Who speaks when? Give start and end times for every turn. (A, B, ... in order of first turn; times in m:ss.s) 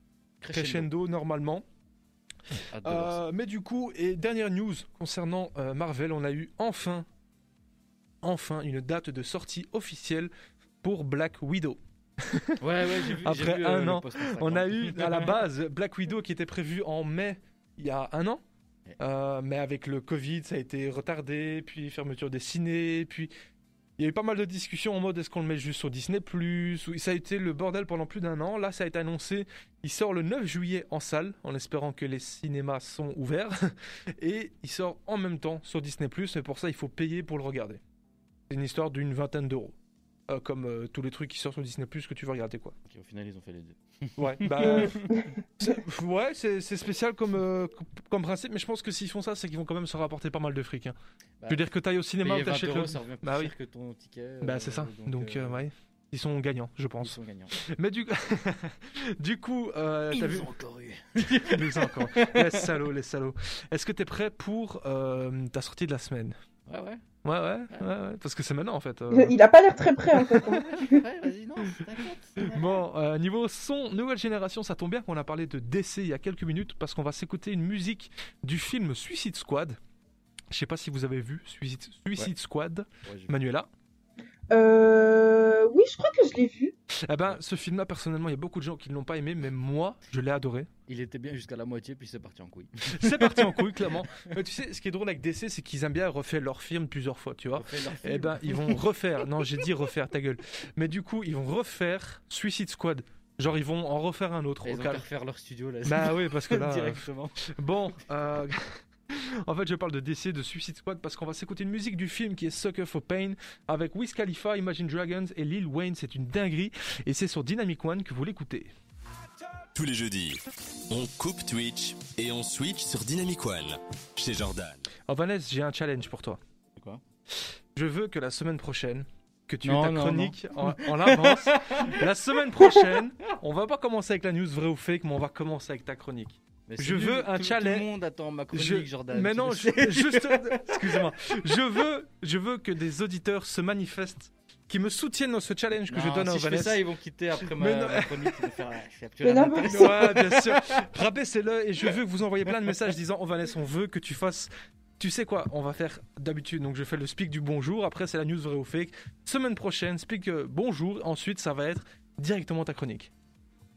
0:00.4-0:00.9 A
0:00.5-0:01.6 B
0:02.7-0:03.2 A
0:02.8-0:07.0 B
0:08.2-0:18.4 B
0:12.6-0:15.4 A
0:19.0-0:23.3 B
0:24.0-0:37.8 B
0:38.5-0:39.7 B
0:40.3-0:42.7 B
0:42.9-0:45.2 A
0:44.2-0:45.0 B
0:44.6-0:45.3 C
0:45.6-0:51.0 B
0:51.5-0:53.5 B
0:52.2-0:55.6 A
0:54.4-1:00.5 B
0:57.0-0:57.6 A
1:00.1-1:02.7 A
1:01.2-1:06.3 B
1:06.7-1:07.0 A
1:07.2-1:09.4 B
1:09.1-1:11.0 C
1:10.4-1:12.7 A
1:12.4-1:19.8 B
1:20.5-1:23.7 B
1:23.0-1:23.4 A
1:24.5-1:26.7 C
1:27.1-1:30.7 B
1:30.9-1:34.3 A
1:32.9-1:45.0 B
1:37.6-1:38.8 A
1:44.6-1:47.4 A
1:45.8-1:58.7 B
1:59.7-2:04.9 D
2:05.1-2:06.4 B
2:06.8-2:07.0 A
2:07.7-2:17.9 B
2:09.6-2:12.0 A
2:16.7-2:21.1 A
2:18.5-2:26.8 B
2:25.9-2:30.9 A
2:27.4-2:28.4 B
2:29.2-2:30.3 C
2:29.6-2:43.1 B